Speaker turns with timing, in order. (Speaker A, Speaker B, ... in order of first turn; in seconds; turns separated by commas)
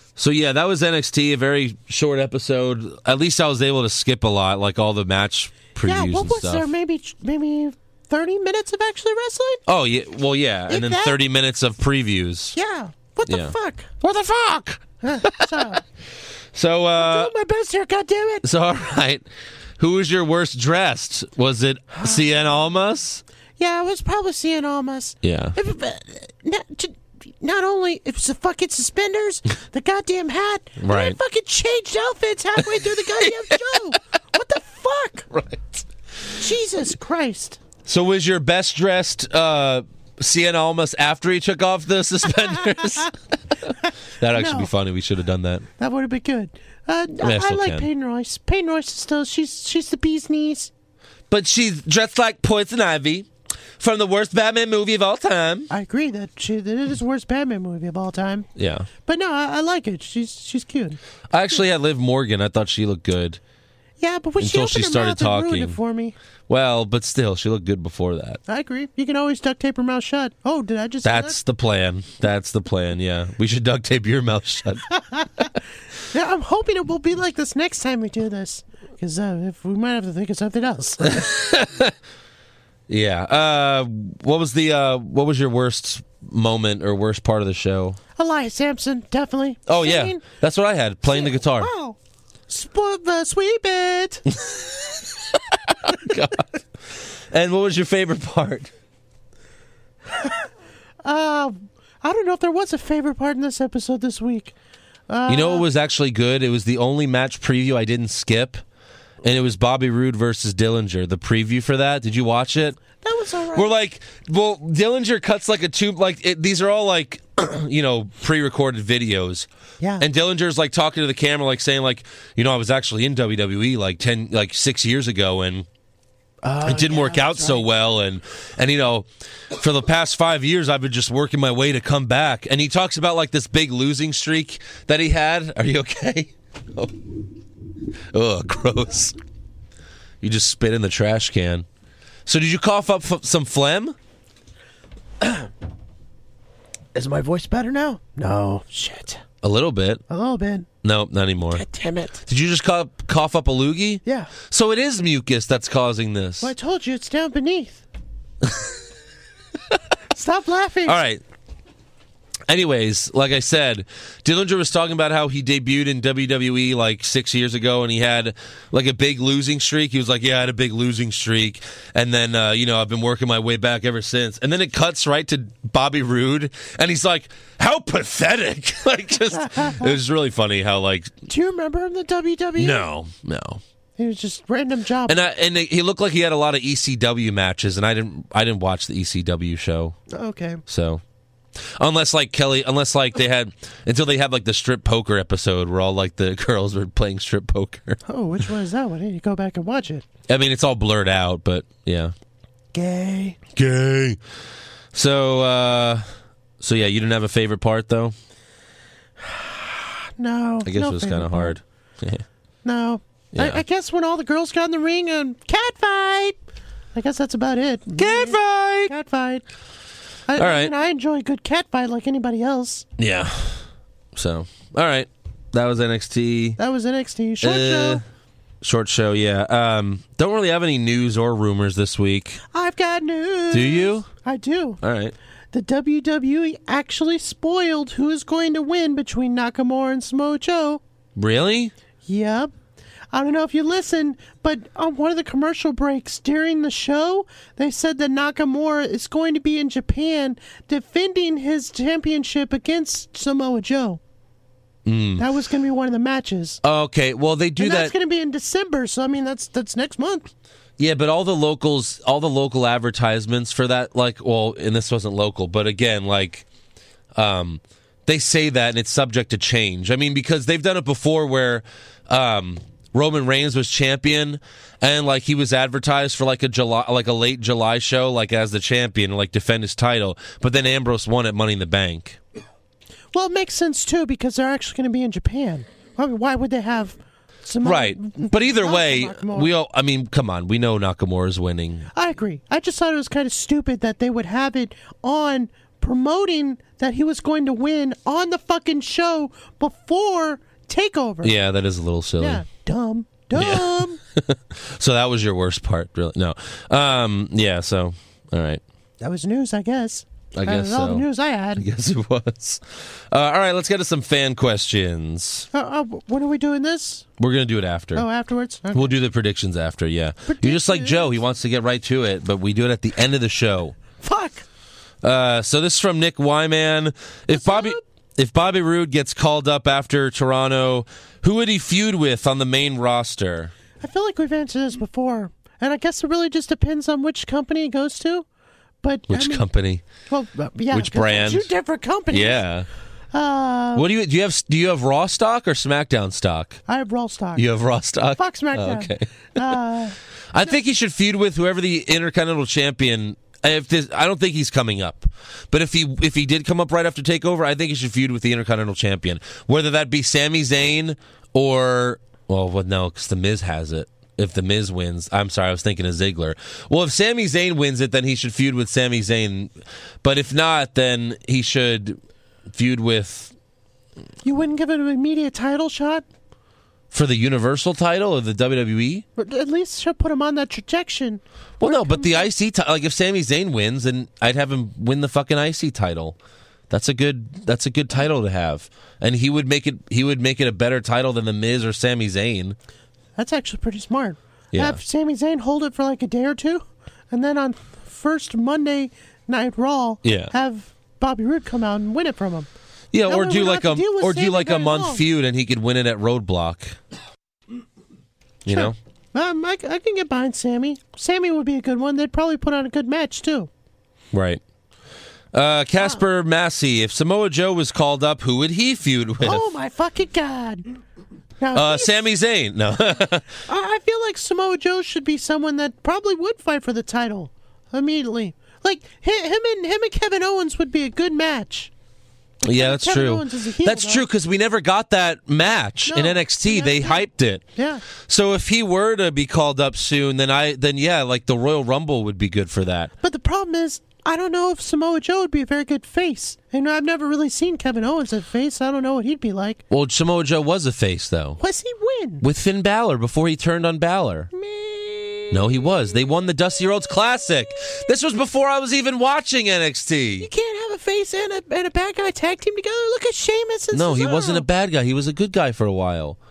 Speaker A: 0.2-6.7, Speaker B: 5.8-9.6, Speaker A: 9.7-12.6, Speaker B: 10.7-11.2, Speaker B: 12.5-13.9, Speaker A: 13.3-15.8, Speaker B: 15.0-15.8, Speaker A: 16.5-17.3, Speaker B: 16.9-18.4, Speaker A: 18.4-19.2, Speaker A: 19.8-23.2, Speaker B: 23.6-35.3, Speaker A: 25.2-25.6, Speaker A: 30.8-31.2, Speaker A: 32.6-34.0, Speaker A: 35.3-35.9, Speaker B: 36.4-37.6, Speaker A: 37.8-45.6, Speaker B: 43.8-44.7, Speaker B: 45.8-50.7, Speaker A: 47.2-47.9, Speaker A: 51.3-53.3, Speaker A: 53.8-55.7, Speaker B: 55.7-58.5, Speaker A: 58.5-58.9, Speaker B: 59.0-61.0, Speaker A: 61.3-63.4, Speaker B: 64.0-66.1, Speaker A: 64.4-65.8, Speaker A: 66.5-68.4, Speaker B: 68.5-71.4, Speaker A: 71.0-74.9, Speaker B: 74.9-75.5, Speaker B: 76.1-81.3, Speaker A: 81.0-81.9, Speaker A: 82.9-88.0, Speaker B: 88.2-90.2, Speaker A: 89.7-91.7, Speaker B: 91.0-92.0, Speaker B: 92.5-94.3, Speaker A: 94.4-98.7, Speaker B: 100.2-100.4, Speaker B: 101.0-104.5, Speaker B: 105.1-105.6, Speaker A: 105.3-108.6, Speaker A: 109.2-112.8, Speaker B: 113.0-113.7, Speaker A: 113.5-119.5, Speaker B: 119.8-120.0, Speaker A: 120.0-125.7, Speaker B: 126.4-127.6, Speaker A: 126.6-137.1, Speaker A: 138.1-139.2, Speaker A: 140.2-141.7, Speaker A: 142.2-143.9, Speaker B: 145.2-145.5, Speaker B: 146.9-149.2, Speaker A: 149.4-150.0, Speaker B: 150.1-150.7, Speaker A: 150.8-151.6, Speaker B: 151.5-152.2, Speaker A: 152.2-156.5, Speaker B: 154.0-154.3, Speaker B: 156.4-157.8, Speaker A: 158.4-158.7, Speaker B: 160.1-161.0, Speaker A: 160.8-161.2, Speaker A: 162.5-181.1, Speaker B: 179.4-179.9, Speaker B: 181.3-182.9, Speaker A: 182.6-183.6, Speaker B: 184.0-185.2, Speaker A: 185.1-190.0, Speaker B: 190.1-190.6, Speaker A: 190.7-191.0, Speaker A: 191.6-198.0, Speaker B: 198.1-200.1, Speaker A: 200.3-202.1, Speaker B: 202.7-203.4, Speaker A: 203.5-204.2, Speaker A: 204.9-206.0, Speaker A: 206.6-208.1, Speaker B: 209.2-211.6, Speaker A: 210.6-212.2, Speaker B: 212.6-216.3, Speaker A: 213.3-213.6, Speaker B: 216.9-219.4, Speaker A: 218.0-218.9, Speaker B: 220.3-222.8, Speaker A: 220.3-220.7, Speaker A: 223.0-226.6, Speaker B: 226.6-228.0, Speaker A: 227.4-228.0, Speaker A: 228.6-232.4, Speaker B: 232.5-234.8, Speaker A: 233.5-234.1, Speaker A: 234.8-235.1, Speaker B: 235.5-240.8, Speaker A: 241.2-241.7, Speaker B: 242.1-242.5, Speaker B: 243.1-254.0, Speaker A: 254.8-255.2, Speaker B: 255.2-256.6, Speaker A: 256.6-257.9, Speaker B: 257.6-260.3, Speaker A: 260.8-266.4, Speaker A: 267.1-282.2, Speaker B: 283.1-289.5, Speaker A: 287.6-291.9, Speaker B: 291.9-301.3, Speaker A: 301.2-302.4, Speaker B: 302.2-304.0, Speaker A: 303.3-308.6, Speaker B: 309.0-311.6, Speaker A: 310.3-315.5, Speaker B: 315.5-317.1, Speaker A: 317.2-318.1, Speaker B: 317.9-318.9, Speaker A: 318.7-323.8, Speaker B: 320.3-321.1, Speaker B: 324.0-324.4, Speaker A: 325.0-333.5, Speaker B: 327.3-327.8, Speaker B: 333.8-338.2, Speaker B: 338.8-339.4, Speaker A: 339.1-339.8, Speaker B: 340.1-342.4, Speaker A: 340.7-341.5, Speaker A: 342.1-342.7, Speaker B: 343.1-343.9, Speaker A: 343.7-346.6, Speaker B: 346.7-347.4, Speaker A: 347.4-349.6, Speaker B: 348.1-349.9, Speaker A: 350.3-373.3, Speaker B: 374.2-376.0, Speaker A: 376.9-379.0, Speaker B: 379.2-382.3, Speaker A: 381.6-386.2, Speaker A: 386.7-392.6, Speaker B: 393.2-402.5, Speaker A: 394.5-394.8, Speaker A: 400.0-400.3, Speaker A: 402.9-406.8, Speaker B: 403.1-405.0, Speaker A: 408.4-408.7, Speaker B: 408.5-413.5, Speaker A: 414.1-414.4, Speaker A: 415.3-419.4, Speaker B: 419.2-420.6, Speaker B: 421.4-422.0, Speaker A: 421.5-423.3, Speaker B: 423.4-431.7, Speaker B: 432.4-434.1, Speaker A: 432.4-437.4, Speaker B: 435.9-437.8, Speaker A: 438.0-442.9, Speaker B: 443.0-449.6, Speaker A: 449.7-451.4, Speaker B: 451.4-452.2, Speaker A: 452.2-454.3, Speaker B: 454.3-455.7, Speaker A: 455.3-460.3, Speaker B: 460.2-464.4, Speaker A: 463.7-466.2